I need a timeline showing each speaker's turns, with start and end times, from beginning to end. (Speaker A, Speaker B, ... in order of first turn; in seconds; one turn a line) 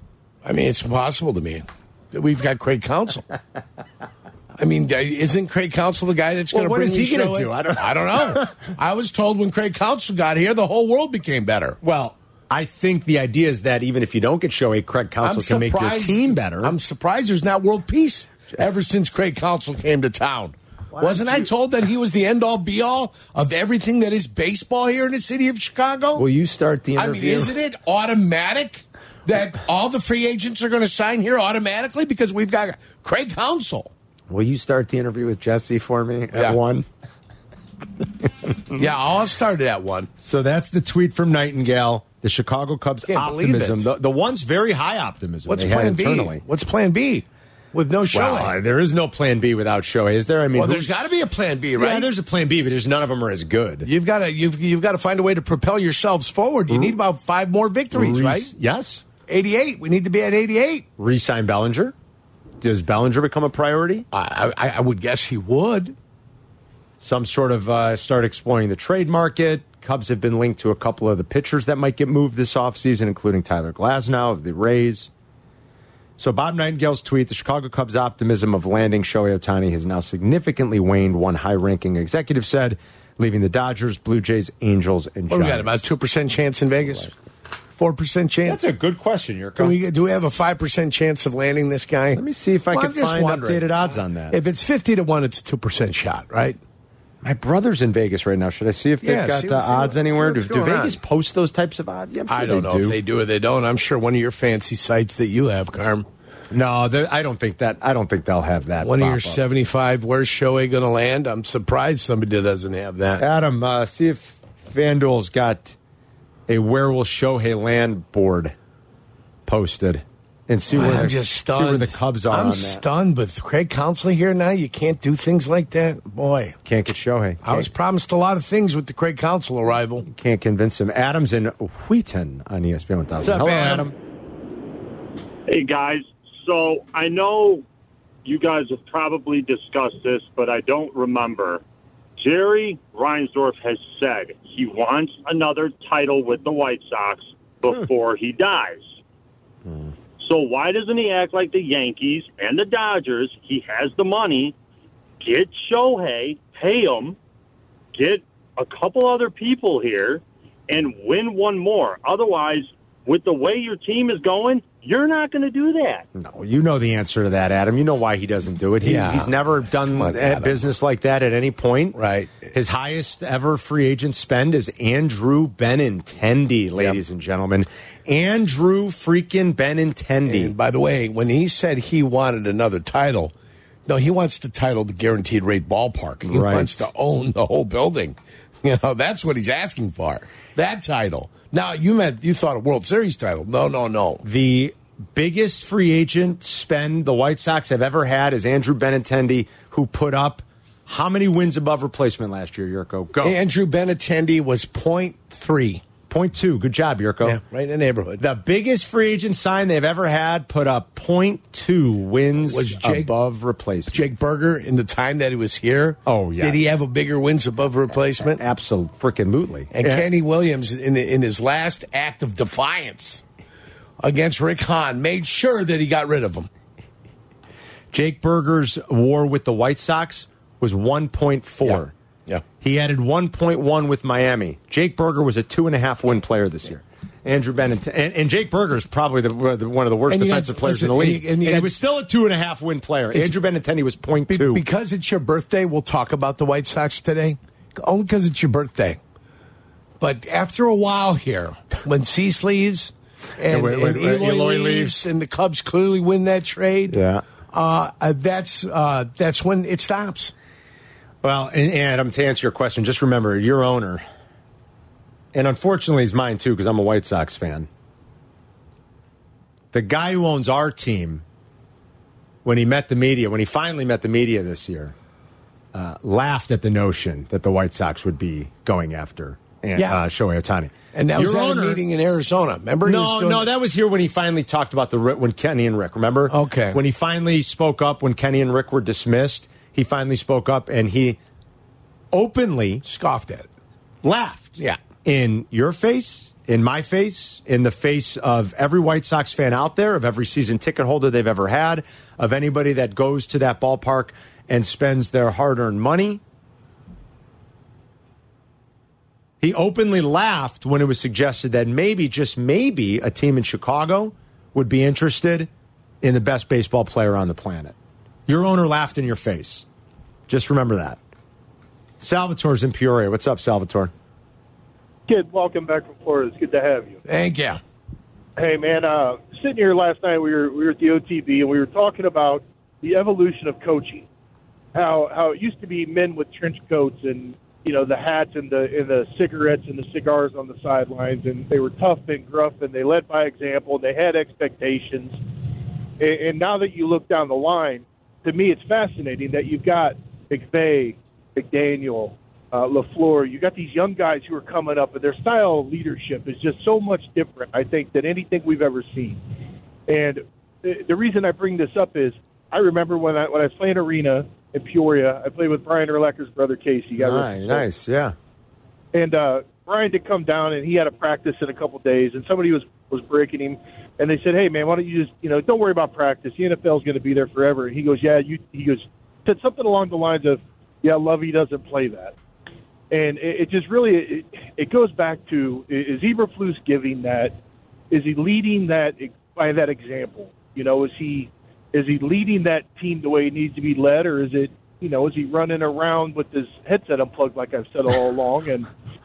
Speaker A: 0.4-3.2
Speaker A: 4.6-11.8
Speaker B: 6.5-8.5
Speaker B: 11.8-16.8
Speaker A: 15.2-26.2
Speaker B: 20.9-21.5
Speaker B: 26.1-27.5
Speaker A: 26.9-33.9
Speaker B: 34.3-36.9
Speaker A: 38.7-40.1
Speaker B: 40.2-46.4
Speaker A: 43.1-43.9
Speaker A: 45.5-48.5
Speaker B: 48.1-51.0
Speaker A: 50.5-52.1
Speaker B: 51.8-53.9
Speaker A: 53.8-58.5
Speaker B: 56.7-57.0
Speaker B: 57.9-59.0
Speaker A: 59.3-60.9
Speaker B: 61.0-61.9
Speaker B: 62.6-64.1
Speaker A: 64.1-66.0
Speaker B: 67.0-75.1
Speaker B: 76.2-85.8
Speaker A: 85.3-87.1
Speaker B: 86.8-87.1
Speaker A: 87.7-88.6
Speaker B: 88.5-89.8
Speaker A: 89.6-93.7
Speaker B: 92.1-94.4
Speaker A: 94.3-96.6
Speaker B: 97.2-103.0
Speaker A: 99.0-101.0
Speaker A: 102.3-106.1
Speaker B: 106.5-109.4
Speaker A: 108.8-113.2
Speaker B: 113.2-115.8
Speaker B: 116.5-118.5
Speaker B: 119.5-122.8
Speaker A: 120.7-126.5
Speaker B: 126.6-127.7
Speaker A: 127.4-130.0
Speaker B: 130.0-134.0
Speaker A: 133.2-133.9
Speaker C: 135.5-137.6
Speaker C: 138.2-141.6
Speaker C: 142.2-148.9
Speaker C: 150.2-154.5
Speaker C: 155.2-157.2
Speaker C: 157.9-166.0
Speaker B: 166.1-172.0
Speaker A: 168.8-170.6
Speaker A: 171.9-172.5
Speaker B: 172.5-180.5
Speaker A: 180.2-183.3
Speaker A: 183.9-194.2
Speaker B: 186.2-186.8
Speaker B: 194.2-203.4
Speaker A: 203.2-205.8
Speaker B: 206.1-207.4
Speaker A: 207.2-208.2
Speaker B: 208.2-214.1
Speaker A: 212.5-213.1
Speaker A: 213.9-218.4
Speaker B: 216.1-216.6
Speaker B: 218.2-220.1
Speaker A: 219.7-223.2
Speaker A: 224.0-226.5
Speaker B: 227.9-231.9
Speaker A: 231.6-232.4
Speaker B: 232.6-244.6
Speaker A: 240.1-241.7
Speaker A: 244.3-249.0
Speaker A: 250.0-257.0
Speaker B: 253.4-255.1
Speaker B: 256.9-257.2
Speaker A: 257.5-260.3
Speaker B: 261.2-264.0
Speaker B: 265.3-267.7
Speaker B: 269.7-271.2
Speaker B: 272.4-274.9
Speaker B: 275.7-281.8
Speaker A: 280.9-283.4
Speaker B: 282.8-291.2
Speaker A: 286.3-286.8
Speaker B: 292.1-292.8
Speaker A: 292.8-293.5
Speaker B: 294.0-306.2
Speaker B: 309.4-315.5
Speaker B: 316.0-317.7
Speaker B: 318.3-319.6
Speaker B: 320.3-321.0
Speaker B: 322.0-323.9
Speaker D: 325.1-327.0
Speaker A: 327.1-327.6
Speaker D: 328.4-334.1
Speaker D: 334.7-345.2
Speaker D: 346.0-359.2
Speaker D: 359.9-367.6
Speaker B: 367.0-368.1
Speaker D: 368.9-382.1
Speaker D: 382.9-387.3
Speaker D: 387.9-398.7